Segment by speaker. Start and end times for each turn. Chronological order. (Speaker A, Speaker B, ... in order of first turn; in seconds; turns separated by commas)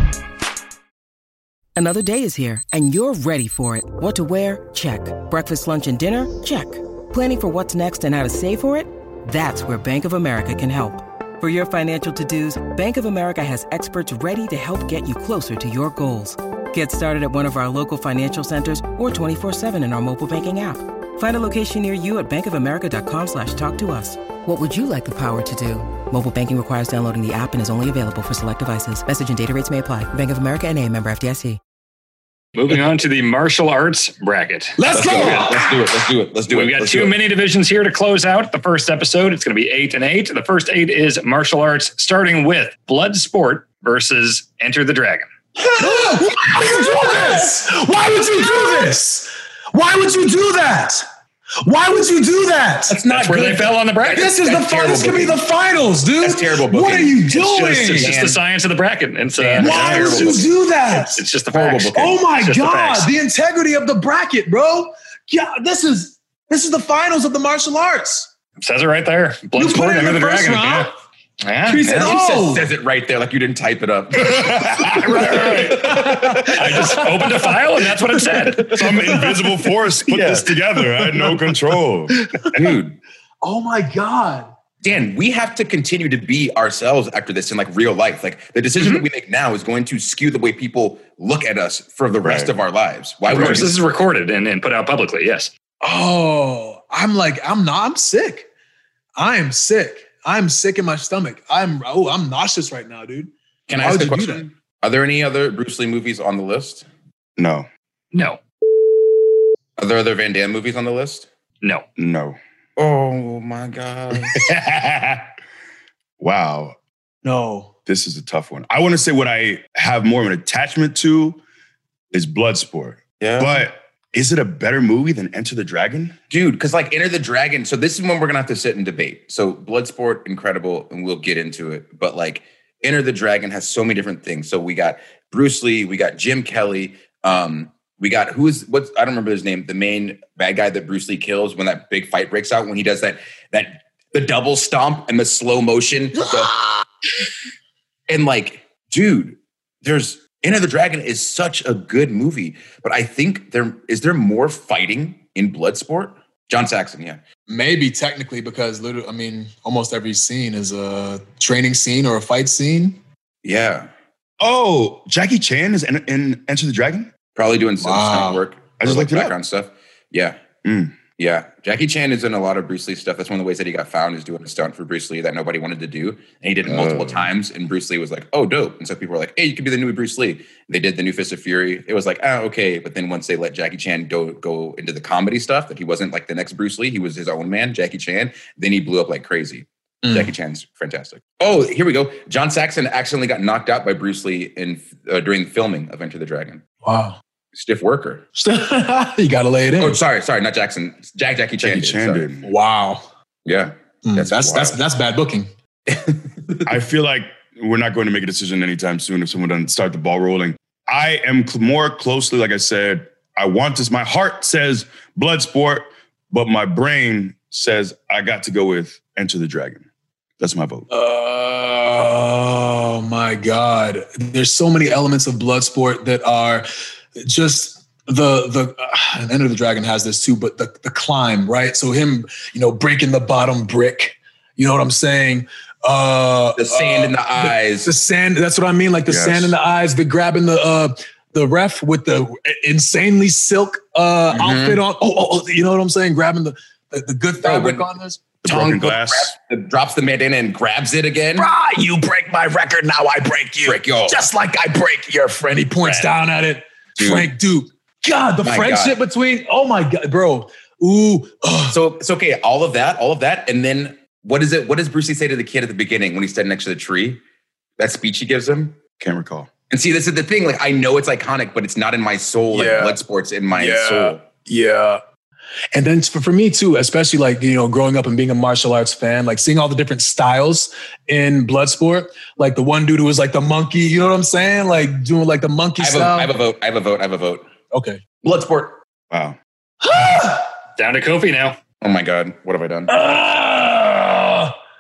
Speaker A: 1.8-31.6, Speaker B: 32.5-35.4, Speaker C: 34.8-35.7, Speaker D: 34.9-37.2, Speaker B: 36.5-45.3, Speaker D: 45.6-47.3, Speaker C: 45.7-51.0, Speaker C: 51.6-58.3, Speaker D: 52.9-55.4, Speaker B: 53.0-54.3, Speaker D: 56.2-58.4, Speaker B: 57.3-63.1, Speaker C: 59.4-61.2, Speaker D: 59.5-60.5, Speaker D: 61.5-62.2, Speaker C: 62.0-68.3, Speaker B: 68.6-70.9, Speaker C: 69.6-70.9, Speaker B: 71.4-72.1, Speaker D: 71.7-76.8, Speaker C: 71.8-72.7, Speaker E: 74.3-75.9, Speaker C: 75.2-81.5, Speaker B: 75.2-78.8, Speaker E: 78.7-82.2, Speaker D: 80.1-80.5, Speaker C: 82.2-82.5, Speaker D: 82.5-83.0, Speaker C: 83.4-84.5, Speaker D: 84.8-93.8, Speaker E: 92.2-92.5, Speaker B: 93.3-95.5, Speaker C: 95.8-98.5, Speaker C: 99.2-104.5, Speaker D: 103.7-106.9, Speaker E: 107.4-107.7, Speaker B: 108.1-108.4, Speaker D: 109.8-111.3, Speaker E: 112.0-112.4, Speaker D: 112.8-114.4, Speaker E: 114.3-115.3, Speaker E: 116.2-116.8, Speaker C: 117.2-117.7, Speaker E: 117.9-121.4, Speaker E: 122.1-126.2, Speaker D: 123.2-123.7, Speaker D: 126.3-146.8, Speaker D: 148.1-157.2, Speaker C: 157.5-163.0, Speaker D: 163.4-163.9, Speaker E: 164.4-167.1, Speaker D: 167.3-170.4, Speaker C: 167.8-168.4, Speaker E: 168.8-169.3, Speaker E: 170.6-171.0, Speaker D: 171.2-196.6, Speaker E: 176.7-177.3, Speaker C: 190.0-190.3, Speaker C: 196.8-197.2, Speaker D: 197.5-198.2, Speaker C: 198.3-200.0, Speaker D: 199.8-202.3, Speaker E: 201.6-202.5, Speaker C: 202.4-203.1, Speaker D: 203.4-204.8, Speaker C: 204.1-205.5, Speaker D: 205.9-206.6, Speaker E: 206.7-219.8, Speaker E: 220.4-220.9, Speaker C: 220.9-226.7, Speaker C: 227.2-248.2, Speaker D: 236.6-237.9, Speaker E: 239.1-239.5, Speaker D: 244.3-244.8, Speaker D: 247.4-247.9, Speaker E: 248.4-249.3, Speaker D: 248.4-251.5, Speaker C: 251.4-261.8, Speaker D: 253.6-254.3, Speaker D: 255.8-256.1, Speaker D: 257.0-257.3, Speaker D: 258.4-259.0, Speaker D: 261.7-267.2, Speaker D: 267.8-268.8, Speaker E: 269.0-269.5, Speaker D: 269.7-274.2, Speaker C: 272.5-273.0, Speaker C: 273.5-275.0, Speaker C: 275.7-286.4, Speaker D: 285.8-287.5, Speaker C: 287.7-288.0, Speaker D: 288.2-288.8, Speaker C: 289.8-290.5, Speaker B: 290.8-291.6, Speaker D: 291.8-292.9, Speaker C: 292.9-294.6